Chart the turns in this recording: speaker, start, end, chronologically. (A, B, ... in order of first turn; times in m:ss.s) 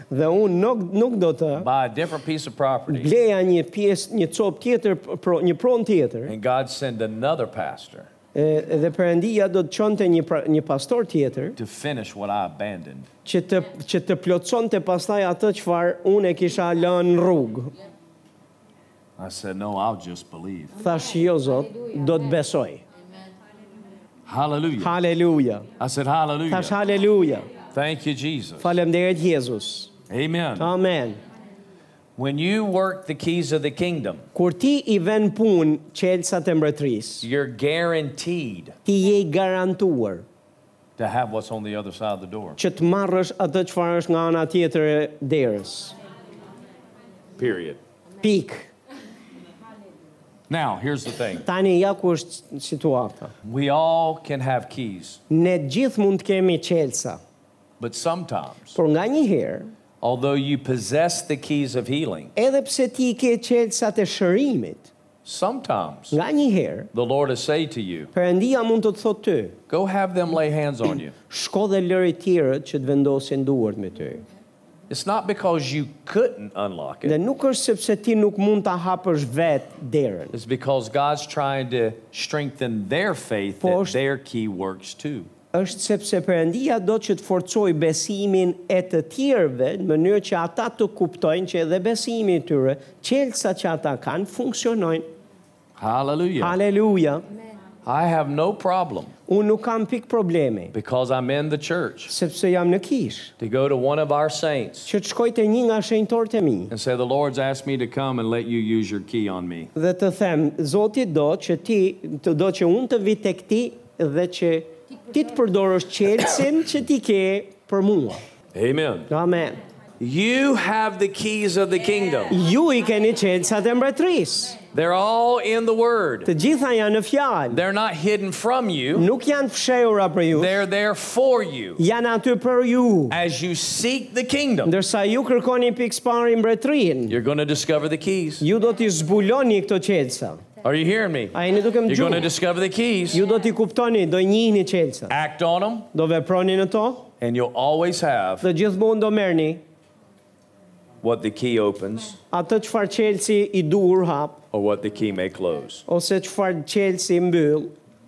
0:00.1-0:01.7 A
0:01.6-0:03.1 B
0:02.9-0:06.3 A
0:06.2-0:08.1 B
0:08.3-0:11.6 A
0:11.6-0:13.1 B
0:13.2-0:17.7 A
0:19.2-0:20.7 B
0:20.8-0:22.8 A
0:24.2-0:25.0 B
0:24.8-0:25.7 A
0:25.8-0:26.8 B
0:26.5-0:27.5 A
0:27.7-0:28.7 B
0:28.6-0:29.9 A
0:30.1-0:30.7 B
0:30.6-0:31.2 A
0:32.2-0:34.2 B
0:34.3-0:37.2 A
0:37.2-0:38.8 B
0:38.8-0:40.2 A
0:41.0-0:42.6 B
0:42.6-0:46.0 A
0:47.4-0:47.8 B
0:48.2-0:48.7 A
0:50.5-0:51.4 B
0:51.4-0:53.3 A
0:53.4-0:55.2 B
0:55.3-0:57.2 A
0:57.8-0:58.8 B
0:58.7-0:59.7 A
1:00.0-1:02.3 B
1:02.4-1:04.9 A
1:05.2-1:06.2 B
1:06.1-1:06.9 A
1:06.9-1:08.1 B
1:08.1-1:09.6 A
1:09.7-1:11.1 B
1:11.3-1:14.2 A
1:14.9-1:17.2 B
1:17.0-1:20.3 A
1:20.3-1:25.3 B
1:23.6-1:24.0 A
1:25.5-1:35.0 A
1:35.8-1:36.6 B
1:36.4-1:37.2 A
1:37.8-1:39.1 B
1:39.3-1:40.7 A
1:40.7-1:42.1 B
1:42.1-1:43.3 A
1:43.4-1:44.9 B
1:44.8-1:46.7 A
1:46.7-1:49.7 B
1:49.7-1:58.2 A
1:58.5-1:59.1 B
1:59.1-1:59.6 A
2:00.0-2:02.4 B
2:02.3-2:04.6 A
2:04.7-2:06.3 B
2:06.2-2:07.6 A
2:07.5-2:09.1 B
2:08.9-2:10.6 A
2:10.3-2:11.8 B
2:11.8-2:13.2 A
2:13.1-2:14.7 B
2:14.6-2:17.2 A
2:17.1-2:18.4 B
2:18.4-2:20.4 A
2:20.6-2:21.4 B
2:21.3-2:22.3 A
2:21.9-2:23.2 B
2:23.1-2:25.1 A
2:25.1-2:25.9 B
2:25.9-2:27.1 A
2:27.2-2:28.5 B
2:28.4-2:29.6 A
2:31.0-2:32.2 B
2:32.3-2:34.4 A
2:34.5-2:35.8 B
2:35.9-2:37.7 A